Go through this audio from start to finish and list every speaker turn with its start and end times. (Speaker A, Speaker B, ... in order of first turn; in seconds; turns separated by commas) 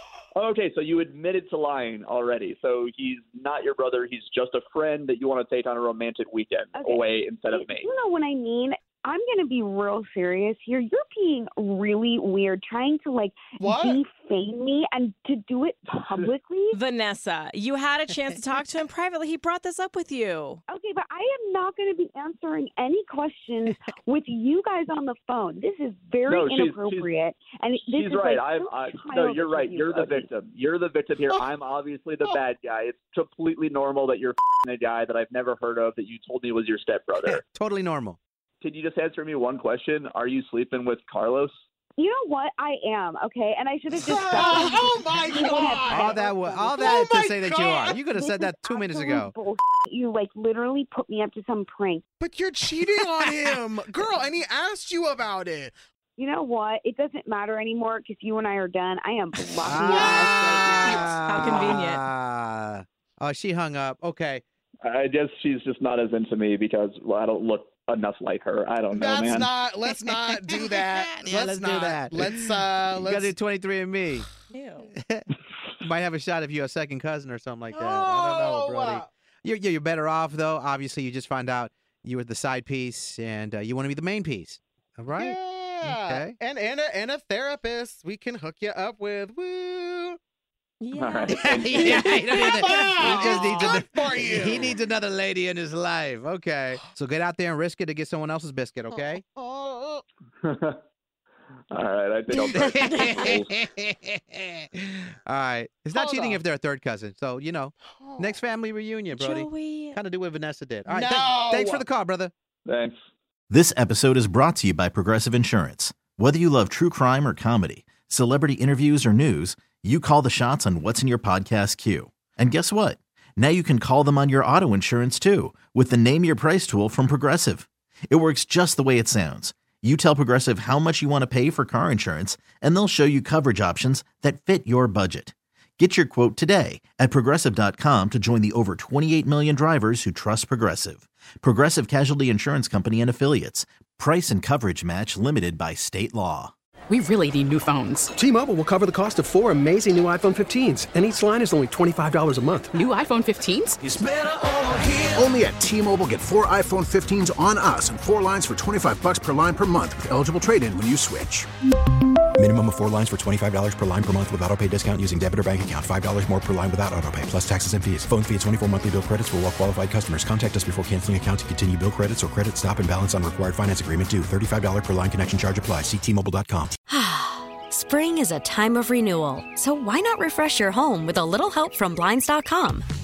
Speaker A: 0.3-7.9, Speaker B: 6.8-16.8, Speaker C: 13.6-14.0, Speaker D: 16.7-20.6, Speaker B: 20.7-30.3, Speaker A: 26.3-27.1, Speaker A: 27.9-37.4, Speaker E: 37.5-38.2, Speaker A: 38.6-41.6, Speaker B: 42.0-47.3, Speaker C: 44.0-48.0, Speaker E: 44.4-44.7, Speaker E: 45.9-49.3, Speaker B: 48.0-52.0, Speaker C: 52.2-55.7, Speaker B: 56.2-61.5, Speaker E: 59.6-64.4, Speaker D: 59.9-60.2, Speaker C: 60.7-61.2, Speaker D: 61.0-62.0, Speaker A: 64.9-69.5, Speaker C: 68.9-73.3, Speaker E: 71.1-74.3, Speaker D: 74.5-74.9, Speaker E: 74.9-75.3, Speaker E: 75.8-86.4, Speaker C: 77.7-79.1, Speaker C: 85.1-90.2, Speaker D: 90.8-93.2, Speaker A: 91.0-91.9, Speaker E: 91.3-99.2, Speaker C: 91.8-94.8, Speaker C: 99.1-100.0, Speaker A: 100.4-100.8, Speaker A: 101.7-103.5, Speaker E: 102.4-112.3, Speaker C: 105.9-106.4, Speaker C: 107.9-108.4, Speaker D: 109.1-110.0, Speaker C: 110.9-111.7, Speaker A: 111.5-111.8, Speaker A: 112.7-113.0, Speaker F: 113.5-146.5, Speaker G: 146.9-148.1, Speaker H: 148.2-152.8, Speaker G: 152.7-153.8, Speaker I: 153.8-161.5, Speaker J: 162.4-176.8, Speaker K: 176.9-182.8